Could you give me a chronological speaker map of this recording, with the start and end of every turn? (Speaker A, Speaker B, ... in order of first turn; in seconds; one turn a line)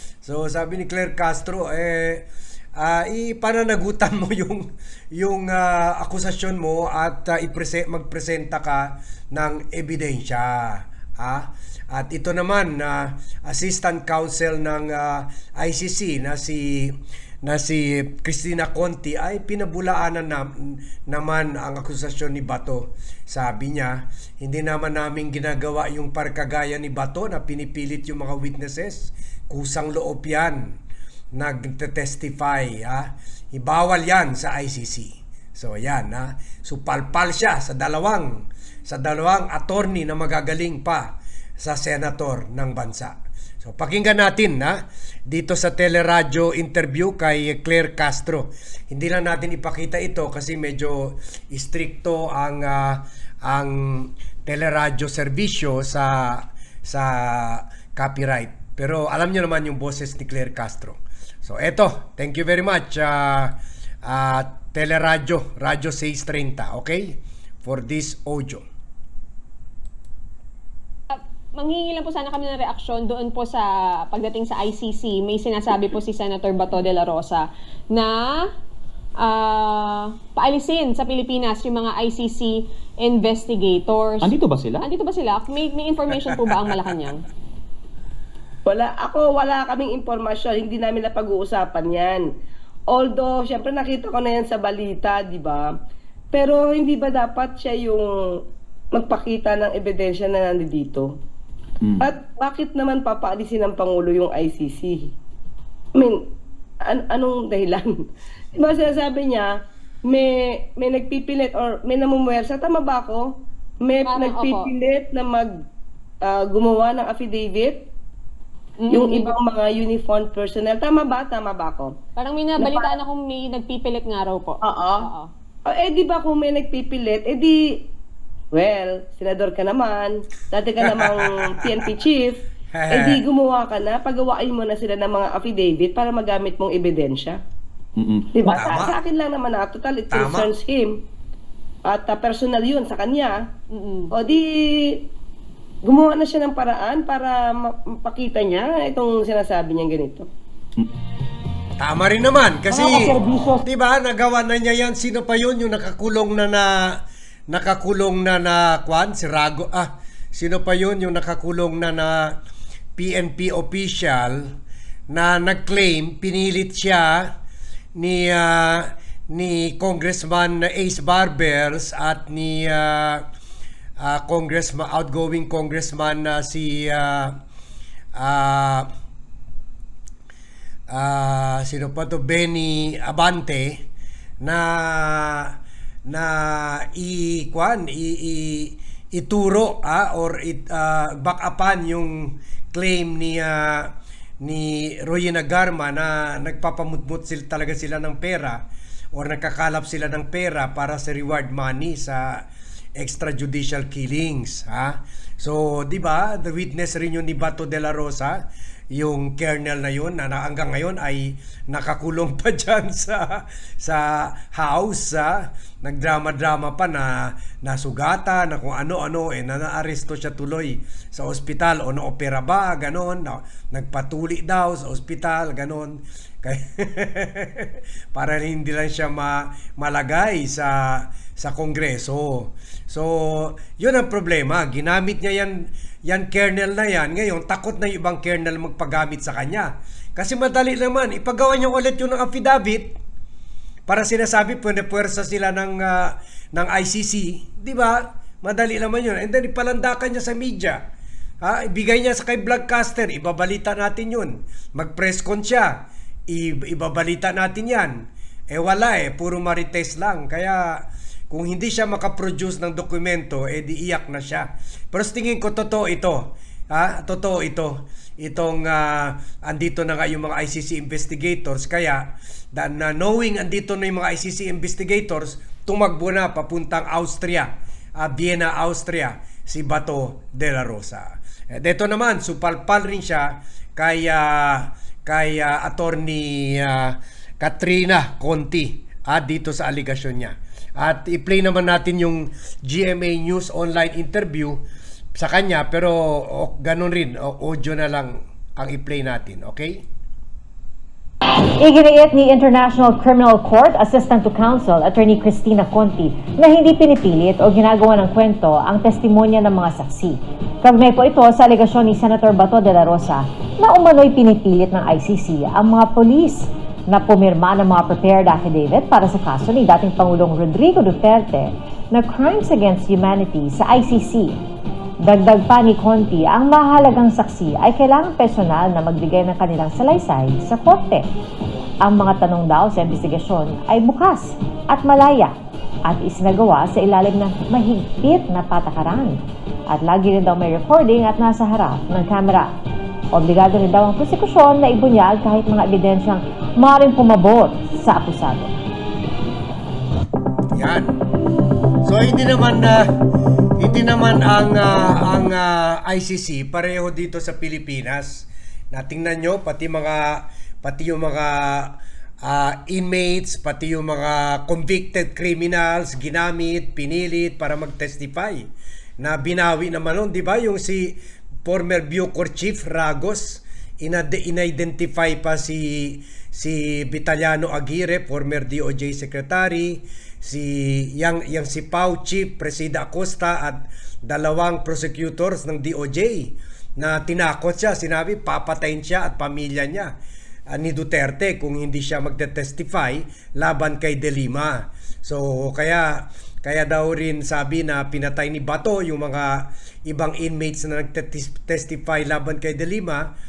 Speaker A: 0.2-30.7
Speaker A: 31.3-68.7
Speaker B: 71.1-78.5
Speaker B: 79.2-87.2
Speaker C: 88.7-92.2
Speaker C: 92.9-95.7
Speaker C: 96.3-98.1
Speaker C: 98.9-101.1
Speaker C: 102.0-105.2
Speaker C: 106.8-107.9
Speaker C: 108.6-109.5
Speaker C: 110.0-113.3
Speaker C: 113.8-115.5
Speaker B: 114.1-114.7
Speaker C: 116.2-117.8
Speaker B: 118.8-119.3
Speaker C: 118.9-122.0
Speaker B: 122.2-125.3
Speaker C: 122.6-122.9
Speaker C: 124.7-125.1
Speaker C: 125.7-127.6
Speaker C: 128.5-132.4
Speaker A: 130.8-131.5
Speaker A: 132.7-133.2
Speaker C: 132.9-137.4
Speaker C: 138.3-140.9
Speaker A: 138.5-139.0
Speaker A: 140.1-140.5
Speaker C: 141.9-143.4
Speaker B: 143.7-144.1
Speaker C: 144.1-144.9
Speaker C: 145.8-150.3
Speaker A: 151.8-162.4
Speaker A: 163.0-164.5
Speaker A: 165.1-167.3
Speaker A: 168.0-173.2
Speaker A: 174.0-177.3
Speaker A: 178.2-178.9
Speaker A: 180.9-183.8
Speaker A: 184.4-185.6
Speaker A: 186.1-198.6
Speaker A: 199.1-202.4
Speaker A: 203.0-208.4
Speaker A: 208.9-243.0
Speaker A: 243.9-250.8
Speaker A: 251.4-294.6
Speaker A: 295.1-299.8
Speaker D: 301.6-324.4
Speaker D: 325.0-331.1
Speaker D: 331.8-342.5
Speaker D: 343.1-348.6
Speaker A: 350.5-350.9
Speaker A: 351.8-352.9
Speaker A: 353.6-389.9
Speaker A: 390.5-403.1